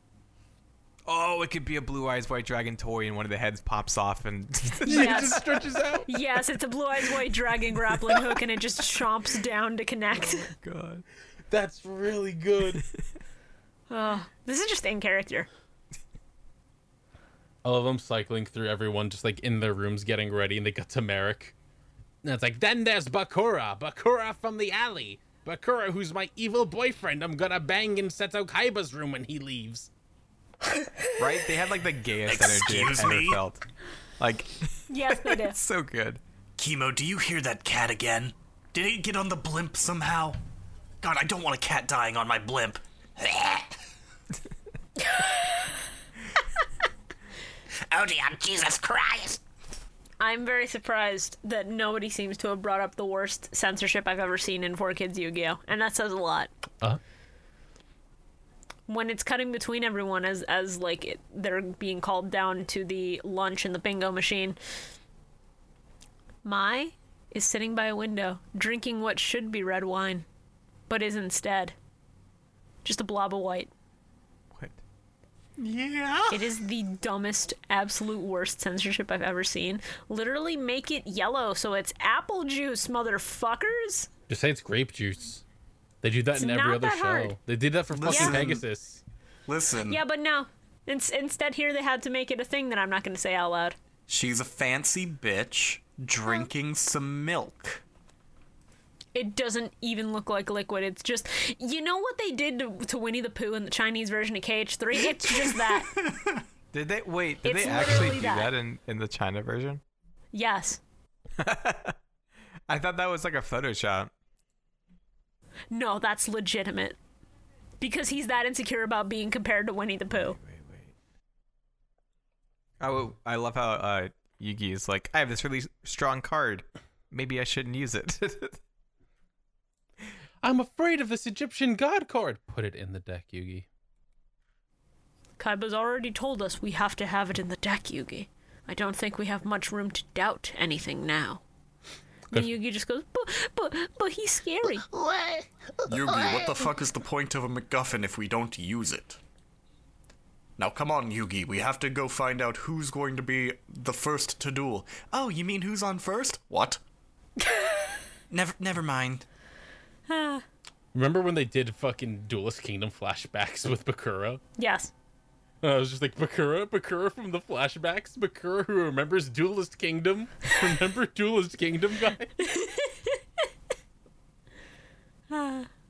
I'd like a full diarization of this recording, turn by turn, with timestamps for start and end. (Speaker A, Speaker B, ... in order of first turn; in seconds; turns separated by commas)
Speaker A: 1.1-6.0, Speaker B: 4.8-6.1, Speaker C: 4.8-5.5, Speaker C: 6.0-10.5, Speaker A: 10.4-11.0, Speaker B: 11.5-12.8, Speaker C: 13.9-15.5, Speaker B: 17.6-21.5, Speaker B: 22.2-29.9, Speaker A: 31.1-33.6, Speaker D: 32.3-33.4, Speaker A: 34.2-36.2, Speaker C: 34.9-35.6, Speaker D: 36.6-40.4, Speaker D: 41.0-43.4, Speaker E: 43.3-43.6, Speaker C: 45.0-45.7, Speaker E: 47.9-49.4, Speaker C: 50.2-56.5, Speaker C: 58.9-64.6, Speaker C: 66.4-70.2, Speaker C: 70.9-71.7, Speaker C: 72.8-73.7, Speaker A: 74.5-74.8, Speaker D: 75.6-76.5, Speaker C: 76.3-84.1, Speaker B: 84.3-85.4, Speaker B: 86.0-89.0, Speaker C: 86.3-87.3, Speaker D: 87.9-88.6, Speaker C: 88.1-88.4, Speaker D: 89.5-90.0, Speaker C: 89.8-93.8, Speaker D: 94.1-97.8, Speaker C: 99.1-106.0, Speaker D: 105.2-106.4, Speaker A: 106.7-109.8, Speaker C: 107.4-108.5, Speaker C: 110.3-110.8, Speaker A: 111.4-112.0, Speaker A: 112.7-114.1, Speaker C: 115.7-117.0, Speaker C: 117.8-120.4, Speaker A: 120.3-120.9, Speaker A: 122.8-128.6, Speaker B: 130.4-133.7, Speaker C: 135.4-141.4, Speaker C: 142.3-144.8, Speaker E: 144.9-146.6, Speaker D: 145.9-149.2, Speaker D: 150.6-156.8, Speaker C: 157.4-157.9, Speaker D: 158.3-159.2, Speaker C: 160.1-160.4, Speaker B: 160.9-164.4, Speaker C: 164.6-164.9, Speaker B: 165.6-172.3, Speaker C: 172.4-173.2, Speaker C: 175.3-175.7